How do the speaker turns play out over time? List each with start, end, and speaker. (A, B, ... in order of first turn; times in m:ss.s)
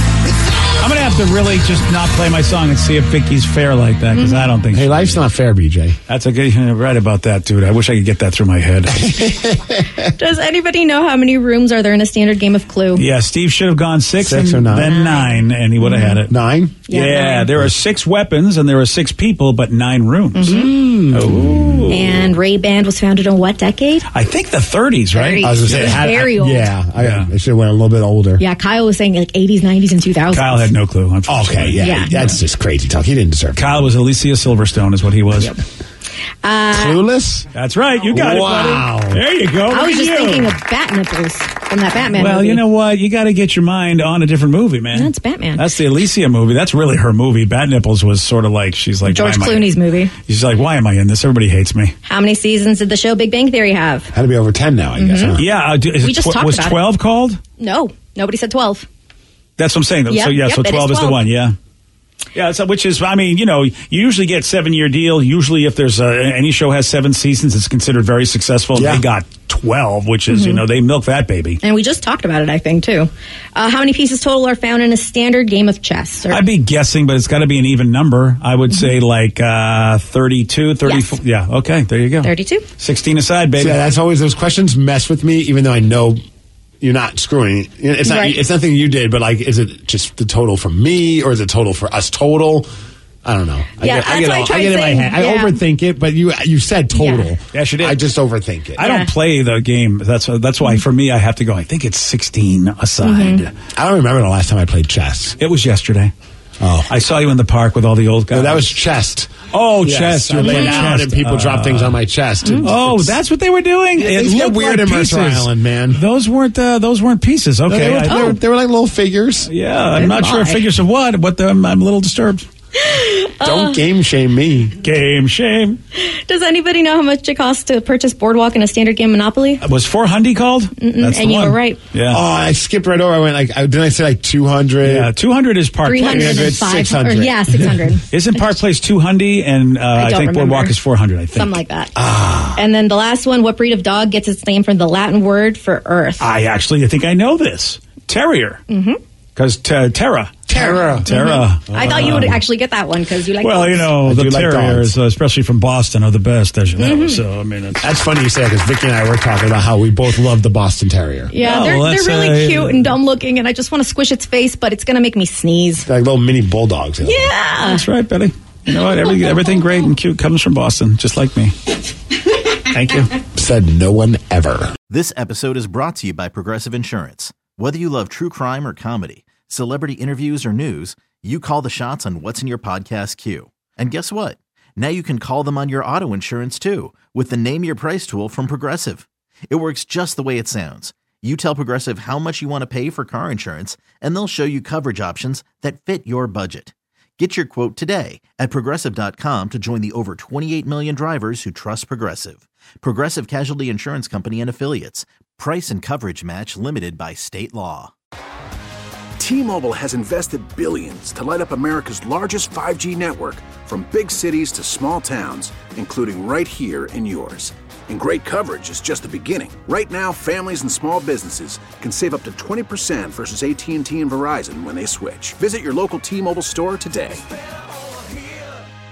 0:00.8-0:05.2 A
0:04.1-0:04.5 B
0:04.7-0:06.0 C
0:06.1-0:09.2 A
0:09.1-0:10.0 C
0:10.2-0:13.0 B
0:13.0-0:16.4 A
0:14.2-0:15.0 C
0:14.8-0:16.2 B
0:16.3-0:16.8 C
0:16.9-0:17.5 B
0:16.9-0:22.3 A
0:20.3-0:20.8 B
0:20.4-0:21.8 C
0:21.9-0:24.0 B
0:24.1-0:26.0 A
0:25.1-0:26.7 B
0:25.4-0:28.4 C
0:27.0-0:27.3 A
0:28.4-0:30.7 B
0:30.3-0:32.4 A
0:31.3-0:33.6 C
0:31.8-0:32.1 B
0:33.6-0:35.6 A
0:36.4-0:37.0 B
0:36.7-0:37.5 C
0:37.5-0:40.5 A
0:38.1-0:39.2 C
0:39.7-0:42.6 B
0:42.0-0:49.7 A
0:44.9-0:45.6 B
0:49.0-0:50.1 B
0:50.2-0:51.9 A
0:52.0-0:54.1 B
0:54.1-0:55.4 C
0:55.0-0:55.4 B
0:55.4-0:57.4 A
0:56.0-0:56.8 B
0:57.6-0:58.9 B
0:59.6-1:01.6 A
1:00.1-1:01.2 B
1:02.3-1:11.6 A
1:08.8-1:09.0 C
1:10.3-1:10.6 B
1:11.6-1:16.4 B
1:16.3-1:23.8 A
1:20.8-1:21.1 B
1:22.2-1:22.7 B
1:23.6-1:26.2 C
1:26.8-1:32.7 C
1:28.0-1:28.4 B
1:33.2-1:38.9 C
1:33.8-1:35.6 B
1:37.0-1:37.3 B
1:37.5-1:38.1 A
1:38.8-1:43.5 A
1:38.8-1:39.1 B
1:43.0-1:43.4 B
1:43.8-1:45.4 C
1:45.4-1:46.1 A
1:46.6-1:46.9 C
1:46.9-1:48.8 A
1:48.3-1:53.2 C
1:49.5-1:52.0 A
1:50.4-1:50.9 B
1:52.6-1:58.4 A
1:54.0-1:56.0 C
1:57.7-2:00.0 C
1:58.1-1:58.4 B
1:59.4-2:02.5 A
1:59.9-2:00.6 B
2:02.8-2:03.8 B
2:03.4-2:04.8 C
2:04.8-2:05.8 A
2:06.0-2:09.6 B
2:09.6-2:12.2 A
2:10.8-2:11.8 B
2:12.1-2:15.1 C
2:14.8-2:16.6 A
2:15.8-2:18.1 B
2:16.0-2:17.7 C
2:18.1-2:21.6 A
2:19.9-2:20.8 B
2:21.4-2:21.9 B
2:22.0-2:22.6 C
2:22.6-2:26.3 B
2:26.2-2:28.6 A
2:28.7-2:29.0 B
2:29.4-2:32.4 A
2:30.5-2:32.4 C
2:30.5-2:34.0 B
2:33.4-2:37.9 A
2:34.0-2:35.0 C
2:36.8-2:37.2 B
2:37.8-2:41.3 C
2:41.3-2:45.9 B
2:41.4-2:43.0 A
2:45.9-2:47.3 C
2:47.0-2:47.9 B
2:47.6-2:51.5 A
2:52.7-2:53.1 A
2:53.4-2:54.7 C
2:54.9-3:27.9 D
3:29.2-3:47.2 E